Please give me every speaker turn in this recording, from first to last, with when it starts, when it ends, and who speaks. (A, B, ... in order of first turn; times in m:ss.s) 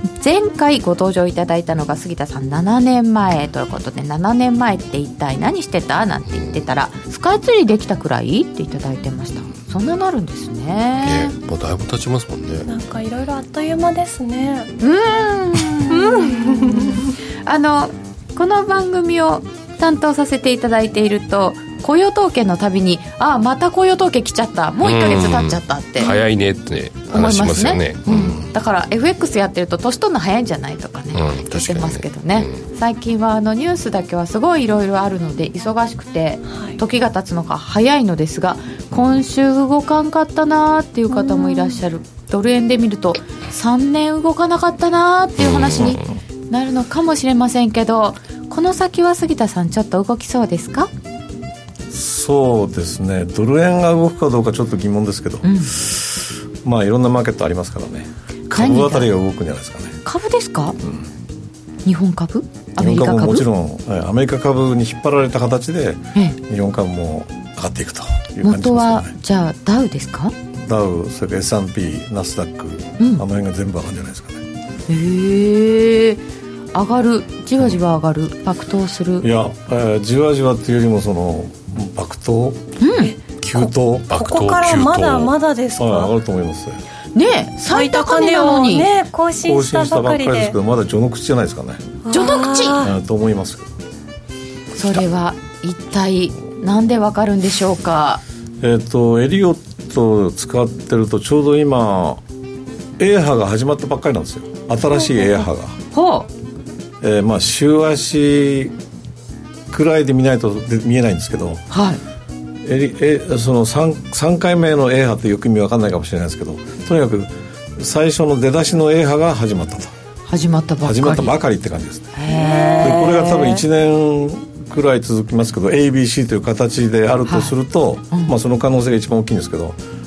0:00.2-0:11.3 A
0:11.0-0:12.7 B
0:12.6-0:14.7 C
0:14.8-0:26.2 A
0:15.8-0:17.0 C
0:24.8-0:28.4 B
0:27.1-0:50.9 A
0:31.1-0:32.6 B
0:36.5-0:36.8 C
0:41.1-0:41.8 C
0:45.4-0:46.0 B
0:51.9-1:00.0 D
0:55.4-0:55.7 A
0:58.5-0:59.1 A
1:00.0-1:00.8 A
1:01.8-1:03.5 A
1:02.8-1:09.1 D
1:08.4-1:10.3 A
1:10.6-1:14.4 D
1:13.0-1:13.2 A
1:14.9-1:19.3 A
1:19.2-1:22.6 D
1:22.8-1:23.1 A
1:23.4-1:24.1 D
1:24.1-1:25.3 B
1:24.1-1:26.1 C
1:25.8-1:26.8 D
1:27.1-1:28.9 A
1:27.7-1:30.5 C
1:29.4-1:31.9 D
1:32.0-1:32.9 C
1:32.1-1:32.8 A
1:32.8-1:33.7 D
1:34.7-1:38.2 A
1:38.6-1:42.2 D
1:43.0-1:45.8 D
1:45.9-1:46.3 A
1:47.0-1:48.8 D
1:49.7-1:51.6 D
1:51.7-1:52.0 A
1:52.6-1:59.9 D
2:00.3-2:01.3 A
2:00.8-2:02.2 D
2:02.1-2:03.6 A
2:02.3-2:03.0 C
2:02.8-2:09.8 D
2:07.2-2:07.5 A
2:08.1-2:08.4 A